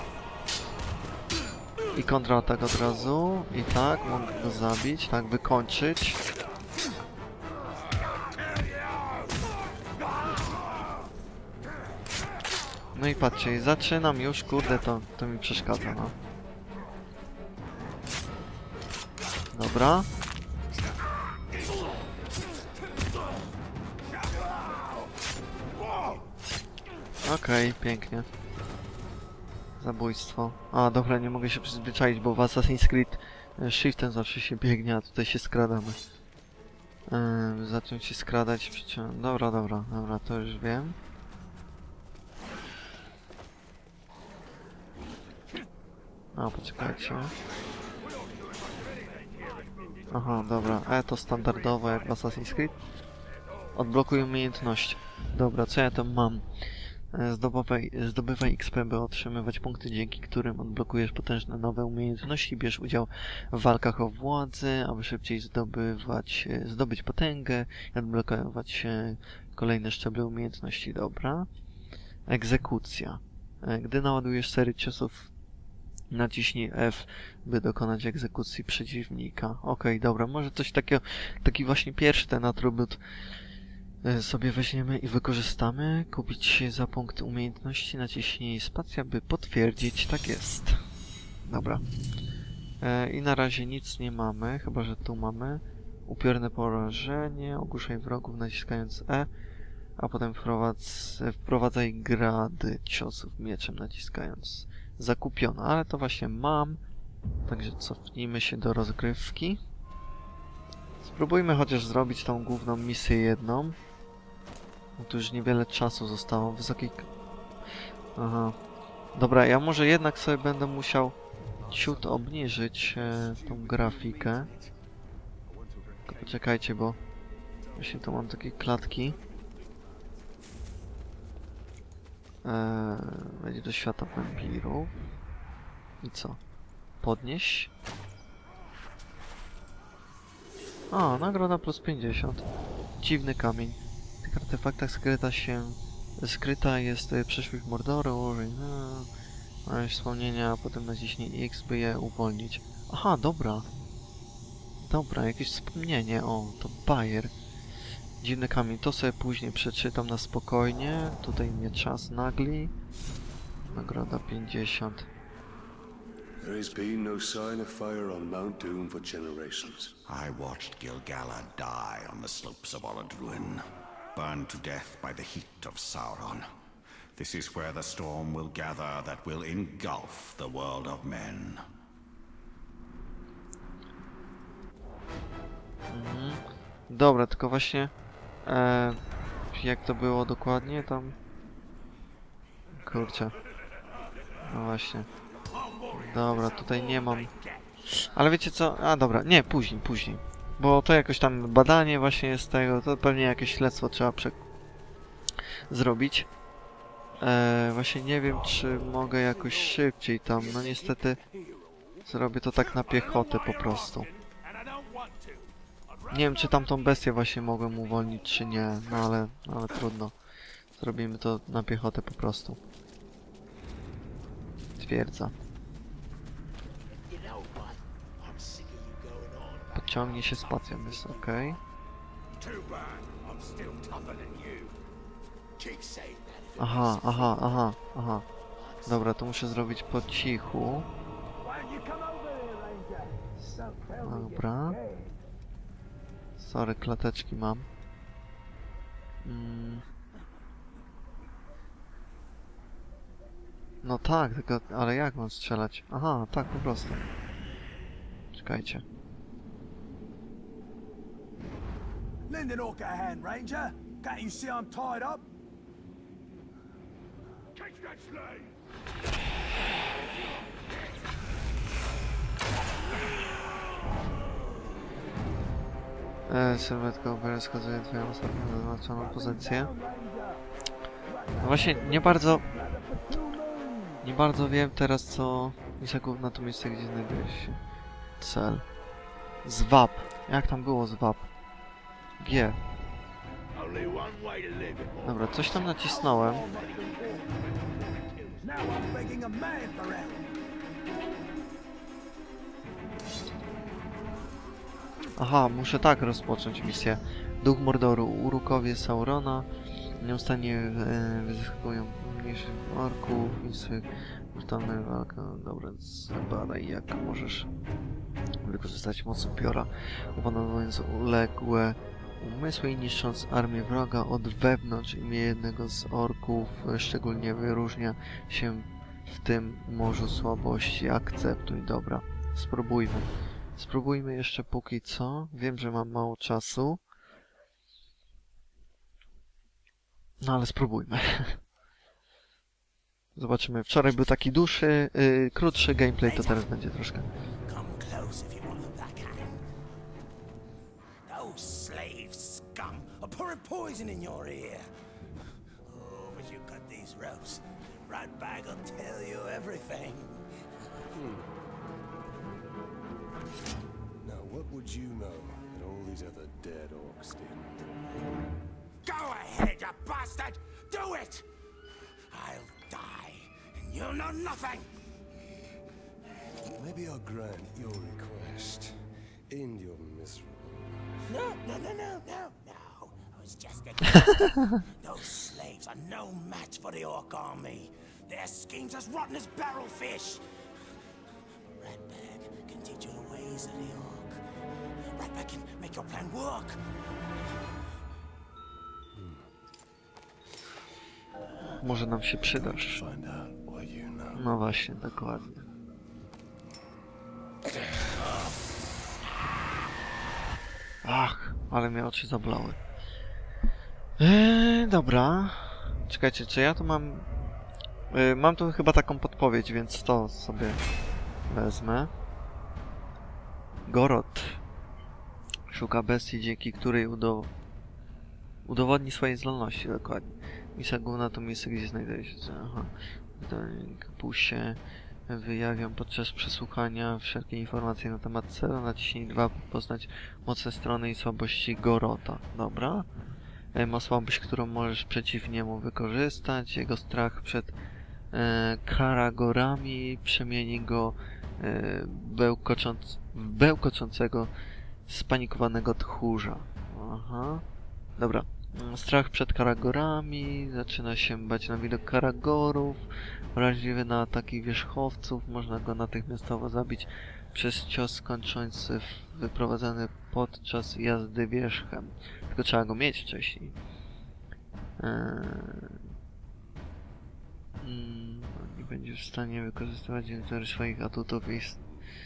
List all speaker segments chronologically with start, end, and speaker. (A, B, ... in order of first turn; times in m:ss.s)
0:01.9-0:06.2 A
0:13.0-0:16.1 A
0:19.5-0:20.1 A
0:27.2-0:28.3 A
0:29.8-0:36.0 A
0:37.1-0:41.0 A
0:46.3-0:47.3 A
0:50.1-0:52.8 A
0:53.7-0:56.4 A
0:57.1-1:11.5 A
1:12.3-1:15.3 A
1:16.1-1:23.0 A
1:24.0-1:30.8 A
1:31.4-1:31.8 A
1:32.8-1:39.3 A
1:40.0-1:46.8 A
1:47.5-1:49.6 A
1:51.0-1:53.8 A
1:55.0-1:57.1 A
1:58.2-1:58.6 A
1:59.2-2:01.2 A
2:01.6-2:02.3 B
2:01.7-2:04.5 A
2:02.8-2:04.7 B
2:05.5-2:06.4 B
2:06.1-2:07.0 A
2:07.8-2:09.2 A
2:12.4-2:14.9 A
2:16.0-2:16.4 A
2:17.0-2:17.7 A
2:20.9-2:22.5 A
2:23.0-2:29.1 A
2:29.7-2:33.7 A
2:34.8-2:37.3 A
2:38.2-2:42.7 A
2:43.7-2:45.1 A
2:46.4-2:50.0 B
2:50.1-2:53.6 C
2:54.1-2:56.5 C
2:57.2-3:01.6 C
3:05.9-3:07.9 A
3:08.5-3:09.0 A
3:09.5-3:11.2 A
3:12.8-3:13.3 A
3:14.5-3:15.1 A
3:15.7-3:17.6 D
3:15.9-3:17.3 A
3:17.9-3:24.4 A
3:25.7-3:26.3 A
3:27.2-3:31.2 A
3:30.5-3:32.0 D
3:32.0-3:34.1 A
3:32.8-3:36.5 D
3:36.1-3:40.2 A
3:40.8-3:42.6 A
3:44.8-3:45.3 A
3:47.1-3:51.6 D
3:49.7-3:51.6 A
3:52.4-3:54.8 D
3:55.6-3:57.4 D
3:56.6-3:58.2 A
3:58.6-3:58.9 D
3:58.9-4:00.9 A
4:01.4-4:03.2 E
4:03.4-4:05.0 D
4:04.0-4:04.8 A
4:06.4-4:07.7 A
4:09.2-4:09.8 A
4:13.8-4:17.1 A
4:18.3-4:18.8 A
4:22.3-4:25.3 E
4:36.3-4:39.7 A
4:39.0-4:40.4 E
4:41.2-4:44.0 E
4:41.4-4:42.4 A
4:44.0-4:47.6 A
4:48.2-4:48.6 A
4:49.4-4:51.3 A
4:52.2-4:52.6 A
4:53.6-4:54.9 E
4:55.0-4:56.5 A
4:55.8-4:57.4 E
4:58.4-5:00.3 E
5:05.2-5:09.5 A
5:10.0-5:17.5 A
5:18.4-5:36.8 A
5:40.2-5:41.4 A
5:43.2-5:47.1 A
5:46.0-5:46.5 D
5:47.5-5:49.4 D
5:51.1-5:54.7 D
5:55.6-6:00.3 D
6:00.9-6:01.3 B
6:04.0-6:07.7 B
6:08.8-6:11.3 D
6:12.1-6:14.7 D
6:16.5-6:20.9 B
6:21.1-6:30.2 D
6:31.6-6:34.2 D
6:34.9-6:36.6 D
6:38.9-6:39.3 B
6:41.6-6:42.8 A
6:42.3-6:44.2 B
6:44.2-6:45.4 A
6:50.8-6:52.6 A
6:54.0-6:57.1 A
6:57.9-7:00.6 A
7:01.3-7:01.9 A
7:03.7-7:04.4 A
7:05.5-7:07.3 A
7:08.4-7:22.9 A
7:23.5-7:27.6 A
7:28.1-7:34.3 A
7:34.9-7:37.4 A
7:38.0-7:53.6 A
7:54.8-7:55.8 A
7:57.6-8:01.6 A